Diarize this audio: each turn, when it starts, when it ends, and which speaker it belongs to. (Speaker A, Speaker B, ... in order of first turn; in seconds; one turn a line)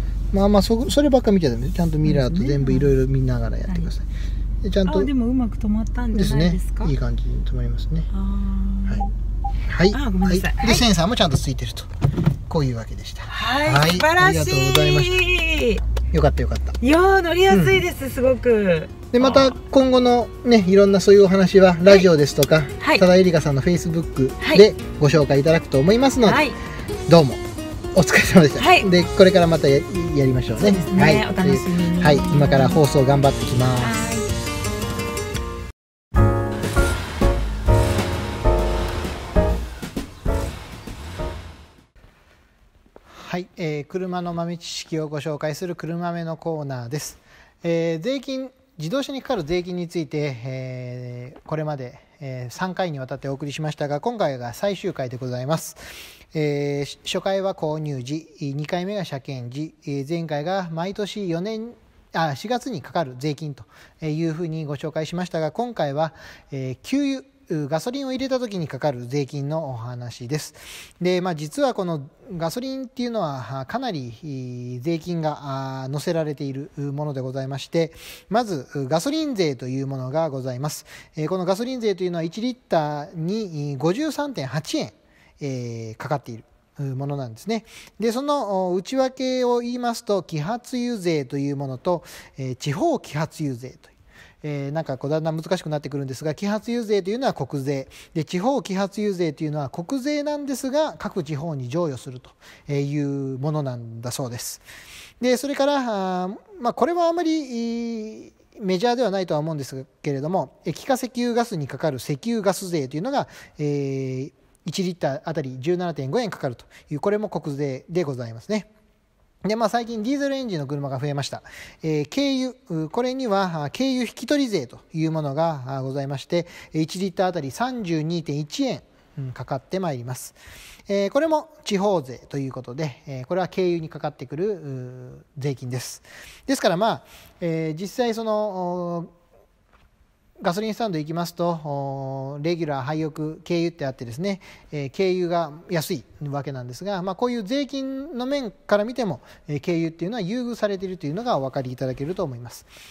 Speaker A: 0.3-4.0
Speaker B: 2.0-2.9
Speaker A: 4.6-5.1
Speaker B: 4.8-6.9
Speaker A: 6.1-8.1
Speaker B: 8.1-9.1
Speaker A: 9.7-11.9
Speaker B: 9.9-10.8
Speaker A: 12.5-15.2
Speaker B: 13.3-15.8
Speaker A: 16.1-16.8
Speaker B: 16.8-19.6
Speaker A: 17.5-17.8
Speaker A: 19.1-26.4
Speaker B: 22.8-23.1
Speaker B: 24.4-24.6
Speaker B: 26.2-26.6
Speaker A: 27.1-27.4
Speaker A: 27.9-34.0
Speaker B: 28.6-28.9
Speaker B: 30.5-32.8
Speaker B: 33.8-34.3
Speaker A: 43.1-55.8
Speaker A: 56.3-93.9
Speaker A: 94.4-104.6
Speaker A: 105.2-118.7
Speaker A: 119.4-130.3
Speaker A: 130.9-139.1
Speaker A: 140.4-152.7